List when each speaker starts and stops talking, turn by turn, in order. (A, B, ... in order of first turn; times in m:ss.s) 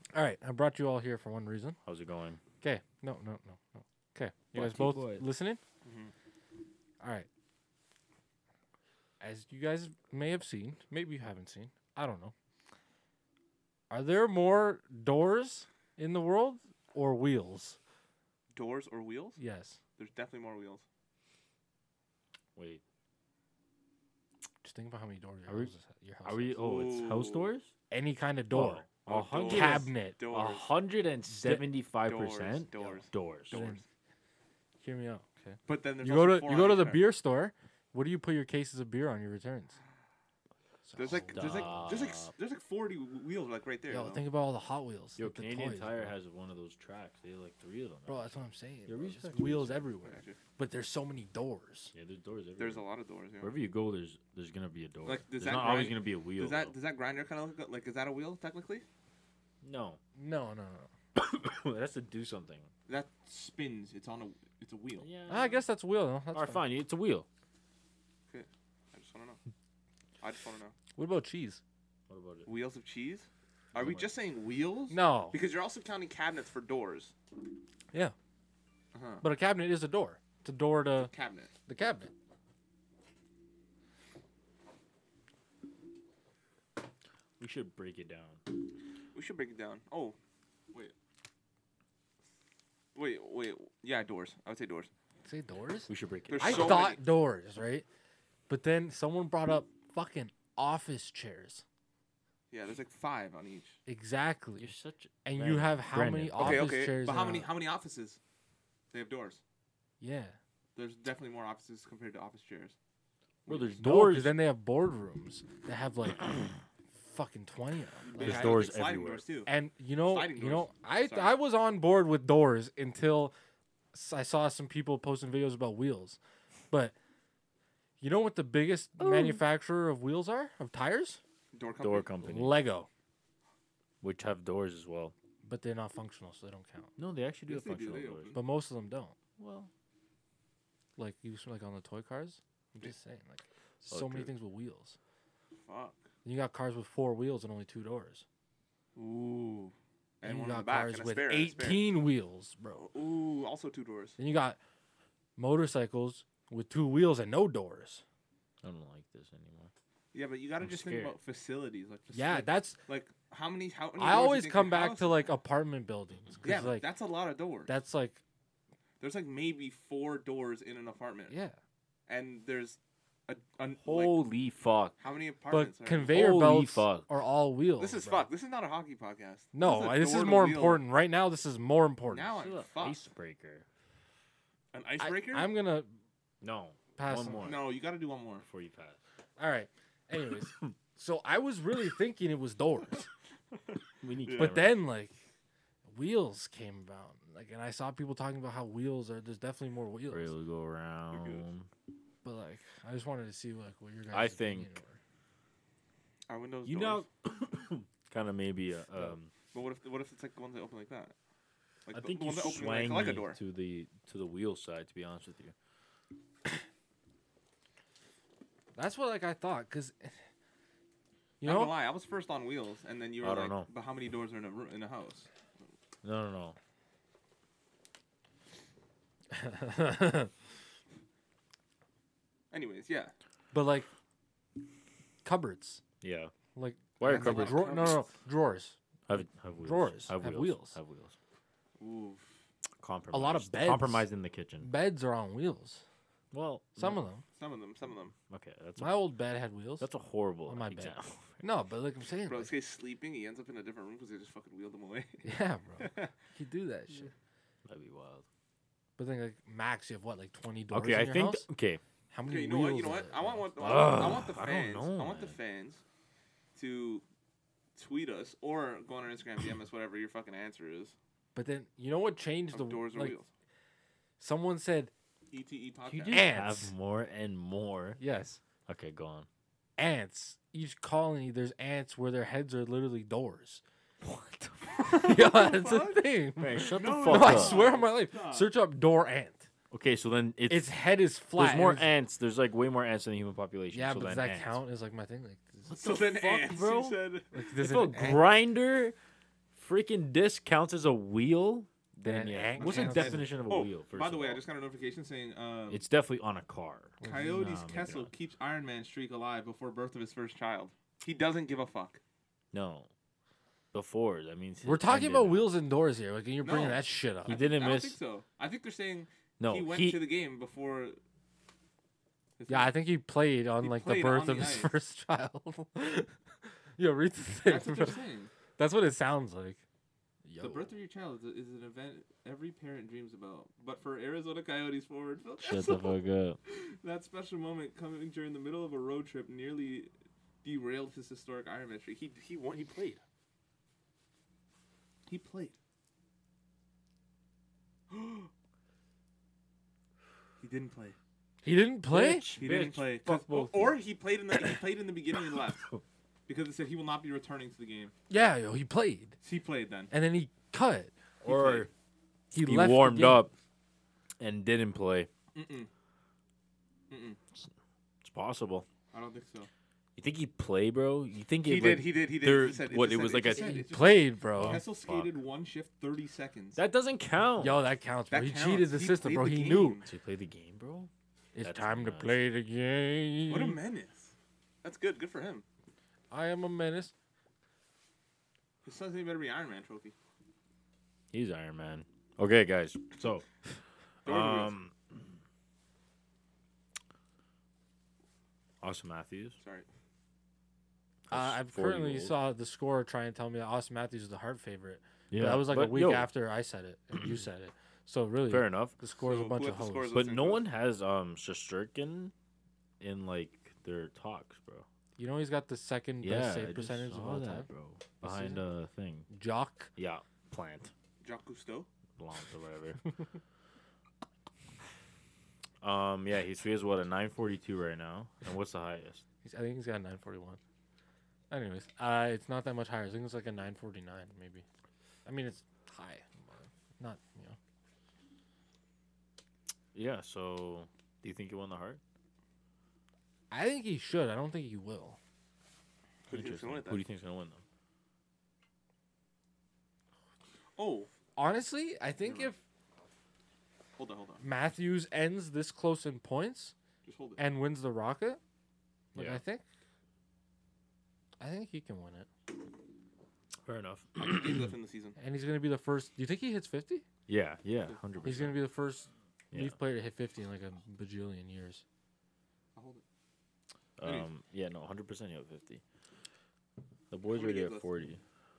0:00.1-0:01.8 A
0:01.8-0:02.4 B
0:02.6-0:05.6 A
0:04.5-0:05.2 B
0:05.8-0:06.1 C
0:07.0-0:07.3 A
0:09.2-0:12.3 A
0:13.9-0:17.8 A
0:18.5-0:19.4 C
0:19.4-0:19.8 A
0:20.0-0:20.8 C
0:22.5-0:22.8 B
0:24.6-0:26.7 A
0:26.2-0:27.7 B
0:26.6-0:27.5 C
0:27.9-0:28.8 A
0:28.5-0:33.6 B
0:29.0-0:30.7 C
0:29.4-0:30.2 A
0:31.3-0:31.7 A
0:32.0-0:33.8 C
0:33.5-0:33.8 A
0:34.8-0:39.8 A
0:35.7-0:37.0 C
0:40.8-0:41.9 A
0:40.9-0:44.2 C
0:41.1-0:42.3 B
0:43.9-0:46.1 A
0:45.2-0:49.9 B
0:48.1-0:51.9 A
0:50.0-0:50.4 C
0:51.9-0:52.8 B
0:52.6-0:53.5 C
0:53.4-0:56.7 B
0:55.0-0:58.8 C
0:59.6-1:00.0 B
1:00.1-1:00.9 A
1:01.1-1:02.7 B
1:02.9-1:05.1 C
1:05.0-1:05.6 B
1:05.3-1:06.6 A
1:06.3-1:07.2 B
1:08.3-1:09.4 C
1:10.2-1:10.7 C
1:10.9-1:11.6 A
1:12.1-1:12.5 B
1:12.4-1:17.1 C
1:13.7-1:14.1 B
1:14.9-1:15.4 A
1:18.9-1:19.2 C
1:19.2-1:21.1 A
1:21.0-1:21.5 C
1:21.7-1:22.1 A
1:27.4-1:28.4 B
1:29.1-1:30.2 C
1:32.9-1:34.9 C
1:35.2-1:37.8 A
1:35.9-1:36.9 B
1:36.3-1:37.0 C
1:38.5-1:41.6 A
1:42.5-1:43.8 C
1:43.8-1:47.5 A
1:44.6-1:46.7 B
1:46.4-1:48.2 C
1:48.9-1:49.4 C
1:50.0-1:50.4 A
1:50.8-1:52.7 C
1:53.4-1:53.8 C
1:53.4-1:54.3 B
1:53.8-1:58.6 A
1:58.0-2:01.4 C
1:58.2-1:59.2 B
1:59.4-2:03.3 A
2:03.9-2:06.2 A
2:08.0-2:11.2 A
2:09.0-2:09.4 B
2:11.5-2:12.1 C
2:11.8-2:12.6 B
2:12.2-2:12.9 A
2:14.0-2:15.1 B
2:15.4-2:16.9 A
2:17.0-2:18.3 B
2:17.5-2:18.4 C
2:18.3-2:19.1 A
2:19.4-2:19.7 B
2:21.0-2:25.0 A
2:23.9-2:24.3 B
2:25.6-2:26.0 C
2:26.2-2:28.2 A
2:29.0-2:31.9 C
2:30.2-2:32.9 A
2:32.8-2:34.2 C
2:34.2-2:34.6 A
2:35.4-2:38.0 A
2:38.6-2:39.7 B
2:40.1-2:45.2 C
2:40.6-2:41.2 B
2:42.1-2:42.8 A
2:44.0-2:46.9 A
2:46.4-2:47.7 C
2:47.7-2:48.2 A
2:49.0-2:51.3 C
2:51.3-2:51.6 A
2:52.1-2:54.2 C
2:53.8-2:54.9 B
2:55.0-2:56.2 C
2:55.5-2:58.3 A
2:56.0-2:57.1 B
2:57.8-3:00.8 C
2:59.5-3:02.3 A
3:02.1-3:03.0 C
3:02.4-3:03.6 B
3:04.7-3:05.5 C
3:05.0-3:05.9 A
3:06.4-3:07.7 B
3:07.0-3:07.6 A
3:07.4-3:08.4 C
3:08.4-3:09.0 B
3:09.4-3:13.1 A
3:14.0-3:14.8 B
3:14.3-3:14.6 C
3:14.4-3:15.2 A
3:15.8-3:20.3 A
3:20.1-3:21.7 B
3:21.1-3:21.4 C
3:22.2-3:25.0 A
3:24.1-3:24.7 B
3:26.3-3:27.0 C
3:26.6-3:29.3 B
3:29.5-3:31.1 C
3:31.8-3:33.4 C
3:31.9-3:35.5 B
3:38.7-3:40.2 A
3:41.4-3:41.8 A
3:41.4-3:45.3 C
3:43.2-3:43.7 B
3:46.0-3:46.6 B
3:49.3-3:50.3 A
3:52.5-3:53.1 C
3:53.5-3:53.9 A
3:55.2-3:55.8 A
3:56.0-3:56.3 B
3:56.5-3:58.8 A
3:57.0-3:58.0 B
3:57.0-3:58.1 C
3:59.1-4:01.1 B
3:59.6-4:00.8 A
4:01.8-4:02.3 C
4:02.8-4:04.7 B
4:03.1-4:04.1 A
4:04.6-4:05.8 A
4:06.3-4:07.0 B
4:06.8-4:07.2 A
4:07.4-4:08.1 C
4:08.3-4:09.0 B
4:08.8-4:09.9 A
4:09.8-4:11.4 B
4:10.5-4:12.5 A
4:12.3-4:15.2 C
4:15.2-4:17.1 A
4:15.8-4:16.1 C
4:17.6-4:18.2 B
4:19.0-4:21.5 A
4:20.7-4:21.8 B
4:22.1-4:23.8 A
4:22.2-4:25.8 C
4:23.6-4:25.4 B
4:26.5-4:27.0 C
4:27.8-4:30.9 C
4:31.3-4:33.1 A
4:32.5-4:33.3 C
4:34.2-4:34.9 A
4:35.3-4:36.3 C
4:35.9-4:38.0 B
4:36.1-4:36.7 A
4:38.0-4:38.4 A
4:38.7-4:39.3 B
4:39.8-4:43.6 A
4:44.0-4:44.8 B
4:44.8-4:48.5 C
4:44.8-4:49.5 A
4:46.4-4:47.7 B
4:49.7-4:50.7 B
4:50.5-4:51.9 A
4:51.3-4:54.6 B
4:53.7-4:55.7 A
4:55.7-4:57.0 B
4:55.7-4:58.3 C
4:57.3-4:58.2 A
4:57.6-4:58.9 B
4:59.5-5:04.4 B
5:02.0-5:03.3 A
5:02.6-5:05.8 C
5:05.7-5:08.1 B
5:07.0-5:07.6 A
5:07.0-5:12.0 C
5:12.5-5:12.9 B
5:13.7-5:15.5 B
5:14.6-5:17.5 A
5:16.4-5:21.0 C
5:17.2-5:18.0 B
5:19.4-5:20.0 B
5:22.4-5:22.7 C
5:22.5-5:26.1 A
5:23.6-5:24.7 C
5:26.8-5:28.0 A
5:27.4-5:28.3 C
5:28.6-5:29.6 A
5:30.2-5:30.7 A
5:30.4-5:39.9 C
5:35.4-5:36.4 B
5:40.4-5:43.0 C
5:45.1-5:45.5 C
5:47.9-5:48.3 C
5:50.4-5:51.0 C
5:51.4-5:52.3 A
5:51.9-5:53.8 B
5:52.3-5:55.7 C
5:55.4-5:55.8 B
5:56.3-5:57.9 C
5:58.1-5:59.2 A
5:59.2-5:59.9 C
5:59.9-6:00.9 A
6:01.2-6:01.7 B
6:01.2-6:01.7 C
6:02.3-6:03.3 A
6:02.3-6:03.3 B
6:04.2-6:05.1 B
6:05.3-6:05.7 C
6:06.9-6:07.2 C
6:08.0-6:08.6 B
6:08.9-6:09.5 C
6:10.0-6:13.6 B
6:11.4-6:16.6 C
6:13.4-6:14.6 A
6:14.4-6:15.1 B
6:16.5-6:17.6 B
6:17.4-6:19.8 A
6:18.1-6:19.9 C
6:19.8-6:20.9 B
6:21.3-6:23.6 A
6:21.4-6:22.2 B
6:23.3-6:25.4 C
6:26.1-6:26.9 A
6:28.6-6:29.9 C
6:31.1-6:35.0 B
6:34.0-6:34.5 C
6:38.6-6:39.4 B
6:39.4-6:39.6 C
6:41.1-6:42.1 B
6:41.1-6:50.0 A
6:45.1-6:46.1 B
6:48.3-6:48.8 B
6:49.0-6:50.4 C
6:49.9-6:52.1 B
6:52.8-6:54.6 B
6:55.0-6:57.5 A
6:56.0-6:59.1 B
6:58.0-6:58.4 A
6:59.1-6:59.7 A
6:59.8-7:00.7 B
7:01.0-7:01.7 C
7:02.0-7:02.8 B
7:05.6-7:09.0 B
7:09.2-7:10.4 A
7:11.3-7:14.4 A
7:15.0-7:17.4 A
7:19.7-7:21.8 B
7:23.3-7:25.0 A
7:26.1-7:26.8 C
7:26.1-7:27.4 B
7:30.6-7:30.9 C
7:31.2-7:32.4 A
7:32.0-7:32.3 C
7:33.8-7:34.2 C
7:34.2-7:36.5 A
7:36.8-7:37.2 C
7:37.2-7:38.2 A
7:38.9-7:39.4 A
7:39.0-7:39.2 B
7:41.2-7:42.1 A
7:43.4-7:44.5 B
7:44.0-7:45.0 C
7:45.0-7:46.8 A
7:47.1-7:48.4 B
7:48.0-7:51.6 A
7:49.3-7:49.6 B
7:52.5-7:52.8 C
7:53.8-7:55.6 B
7:53.8-7:54.1 C
7:56.9-7:58.0 B
7:57.1-7:57.9 C